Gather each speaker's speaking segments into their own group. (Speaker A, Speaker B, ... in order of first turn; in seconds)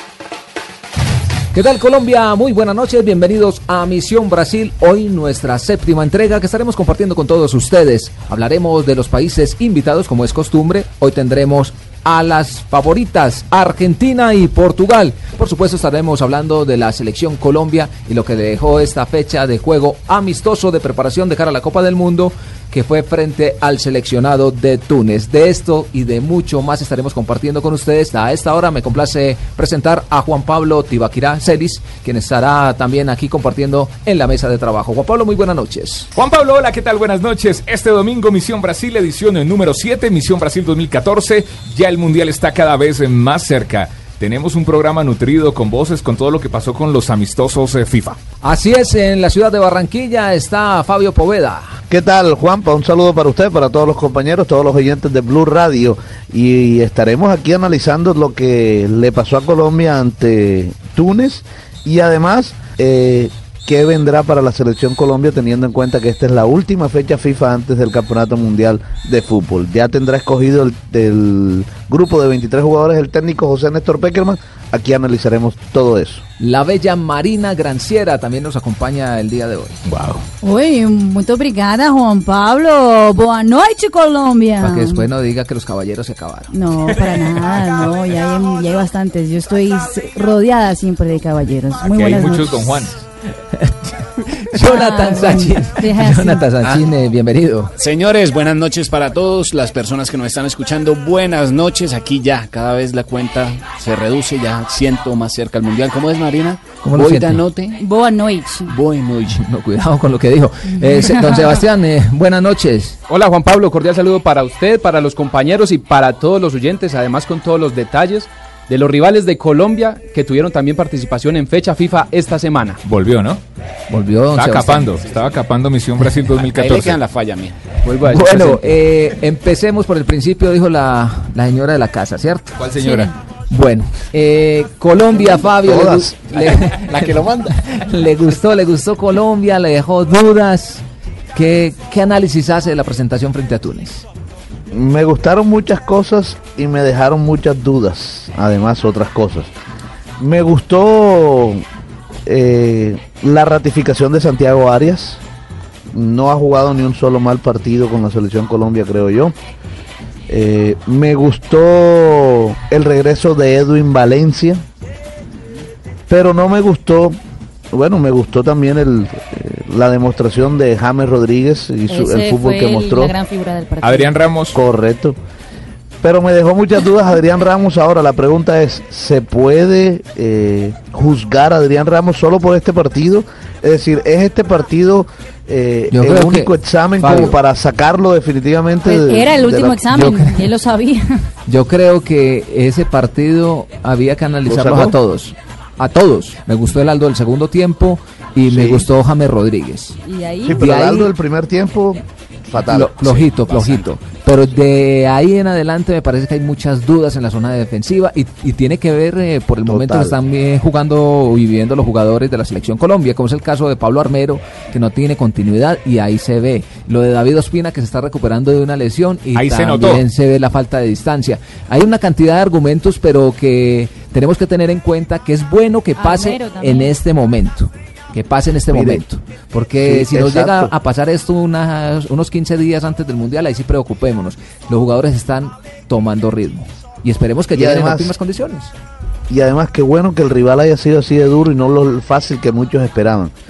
Speaker A: 1.5-36.1, 48.4-51.7, 76.4-79.8, 84.6-86.5, 94.5-97.7, 106.8-107.4, 109.3-113.0, 123.9-125.0, 128.0-132.6, 133.5-144.0, 185.9-187.4, 189.9-190.5, 191.5-199.9, 200.6-201.1, 202.7-238.7
Speaker B: 36.1-48.2, 79.8-80.2, 91.8-93.1, 122.8-123.4, 124.3-127.0, 132.6-133.1, 173.8-174.6, 219.3-220.0
Speaker C: 51.9-76.2, 135.4-136.2, 144.7-149.5, 150.2-151.6, 152.2-155.2, 155.9-159.3, 160.3-164.6, 166.1-167.2, 167.7-173.1, 174.5-175.2, 176.0-189.8, 194.4-195.0, 198.5-198.9, 200.4-202.9, 209.7-210.2, 228.7-229.0, 229.8-230.7, 237.5-238.1, 239.3-243.3
Speaker D: 80.4-85.0, 86.5-92.9, 94.6-96.5, 107.8-108.8, 110.8-111.6, 132.8-133.1, 171.9-174.2, 188.8-191.0, 200.0-200.6, 226.0-226.9
Speaker E: 97.8-107.8, 108.7-109.4, 126.4-127.6, 203.0-204.0
Speaker F: 113.1-122.8, 127.8-128.7